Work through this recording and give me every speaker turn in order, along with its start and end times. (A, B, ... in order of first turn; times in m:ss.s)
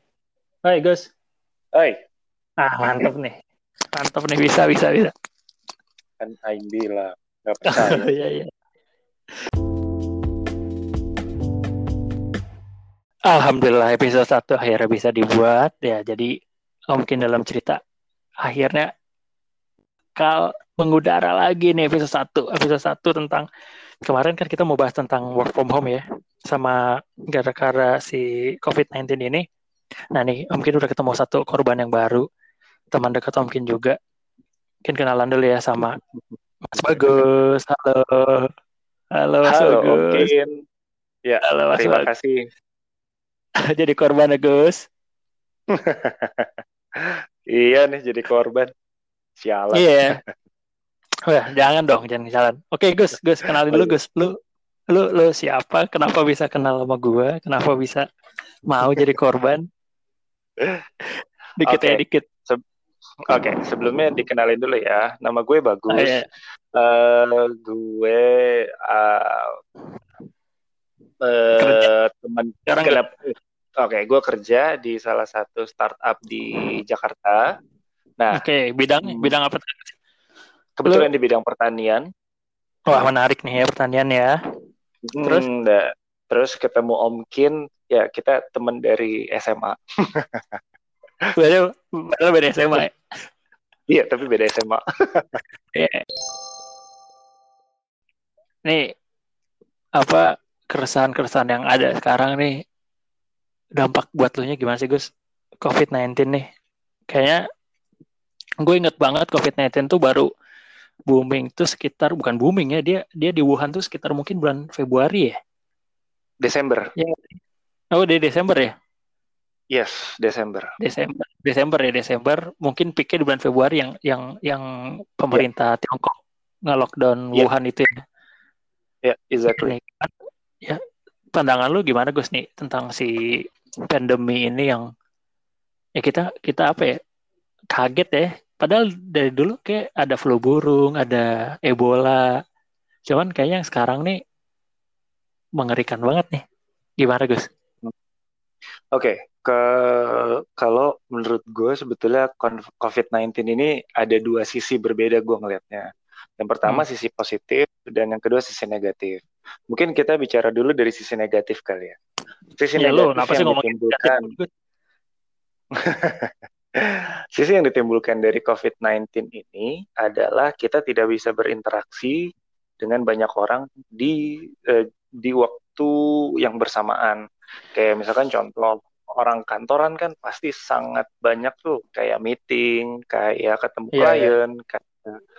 0:00.6-0:01.1 A
0:01.7-0:02.0 B
0:02.6-0:03.4 A
0:04.0-0:05.1 A
0:06.2-0:08.1 B
0:07.7-0:08.5 A
0:13.3-0:16.3 A
0:16.9-0:17.8 A
0:18.4-0:18.9 A
0:20.2-0:23.4 A
0:24.0-0:29.4 A
0:30.1-0:32.2 A
0:32.9-0:34.0 A
0:34.8-0:36.0 A
0:36.6-0:38.5 A
0:39.2-0:40.3 A
0:39.5-0:40.5 B
0:41.2-0:42.4 B
0:41.4-0:42.1 A
0:43.7-0:44.8 A
0:45.7-0:48.7 B
0:49.4-0:50.0 B
0:49.7-0:50.2 A
0:51.3-0:54.3 A
0:53.4-0:54.0 B
0:54.9-0:58.0 A
0:58.7-0:59.6 A
1:01.6-1:02.2 A
1:01.6-1:02.6 B
1:03.3-1:06.2 B
1:05.9-1:06.3 A
1:06.7-1:09.6 B
1:11.2-1:17.5 B
1:11.6-1:11.9 A
1:12.6-1:13.0 A
1:18.3-1:19.9 A
1:19.0-1:19.3 B
1:20.8-1:22.0 B
1:22.9-1:24.4 A
1:25.0-1:30.6 B
1:25.2-1:25.5 A
1:31.3-1:32.9 A
1:33.9-1:35.4 B
1:35.7-1:36.0 A
1:38.6-1:38.9 A
1:40.0-1:42.6 A
1:43.8-1:45.1 A
1:45.6-1:46.5 A
1:47.1-1:47.4 A
1:48.6-1:50.3 A
1:51.1-1:55.4 A
1:56.4-1:56.9 B
1:56.9-1:57.4 A
1:57.9-1:58.7 A
1:59.7-2:00.7 B
2:00.8-2:08.0 A
2:09.0-2:09.7 B
2:09.5-2:10.1 A
2:11.3-2:13.2 A
2:13.9-2:14.9 A
2:16.0-2:17.0 A
2:17.7-2:22.3 A
2:23.1-2:24.2 A
2:25.6-2:26.4 A
2:27.0-2:27.4 A
2:28.9-2:35.9 B
2:36.4-2:42.0 B
2:42.6-2:44.3 B
2:42.8-2:44.5 A
2:45.7-2:52.2 B
2:52.8-2:57.2 B
2:57.7-3:05.2 B
3:03.9-3:04.4 A